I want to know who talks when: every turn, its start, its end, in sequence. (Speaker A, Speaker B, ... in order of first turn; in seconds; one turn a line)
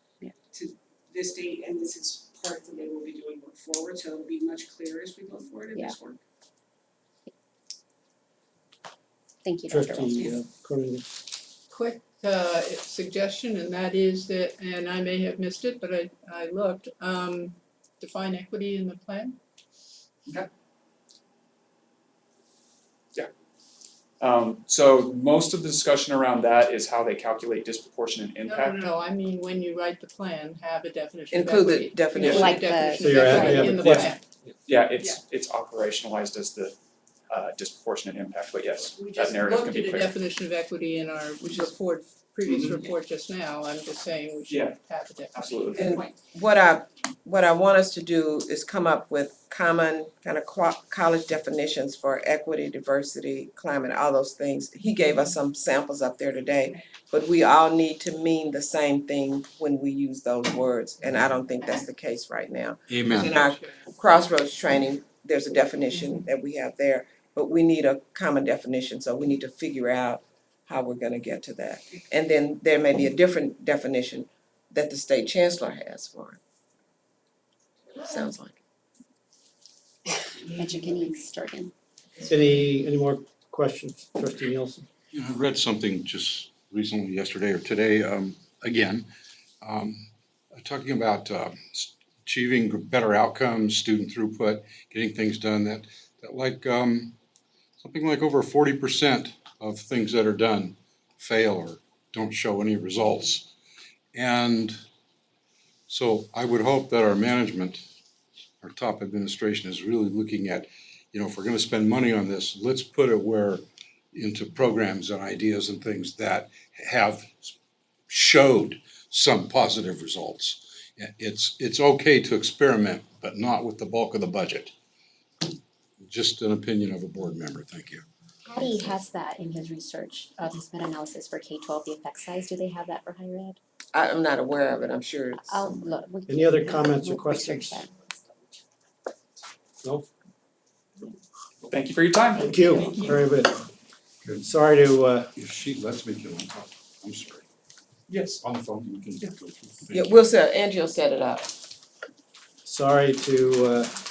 Speaker A: 0.5-6.2
Speaker B: 5.7-6.0
Speaker B: 9.4-10.3
Speaker C: 9.7-11.1
Speaker D: 11.7-19.4
Speaker E: 24.2-28.9
Speaker D: 28.6-34.1
Speaker F: 31.3-32.6
Speaker E: 32.1-32.5
Speaker A: 32.2-34.2
Speaker B: 32.2-33.8
Speaker C: 33.0-34.1
Speaker E: 34.7-36.8
Speaker E: 37.3-40.2
Speaker A: 39.0-40.0
Speaker D: 39.4-45.5
Speaker E: 42.5-42.9
Speaker A: 42.5-42.9
Speaker E: 44.5-44.8
Speaker E: 45.3-46.0
Speaker A: 45.6-46.1
Speaker F: 45.8-76.4
Speaker G: 62.9-63.5
Speaker F: 78.0-78.5
Speaker B: 80.2-81.7
Speaker C: 82.2-84.8
Speaker G: 85.1-89.1
Speaker G: 89.6-97.2
Speaker G: 97.8-103.5
Speaker G: 104.1-104.7
Speaker G: 105.9-107.8
Speaker G: 108.6-117.5
Speaker G: 118.1-124.7
Speaker G: 126.0-128.1
Speaker B: 128.5-133.6
Speaker F: 133.9-135.9
Speaker B: 135.4-138.6
Speaker C: 136.3-137.8
Speaker C: 139.8-140.1
Speaker E: 141.7-142.8
Speaker C: 142.4-143.6
Speaker C: 144.4-145.3
Speaker G: 145.4-147.5
Speaker E: 148.1-148.4
Speaker G: 148.4-150.2
Speaker F: 149.9-151.5
Speaker C: 152.7-153.9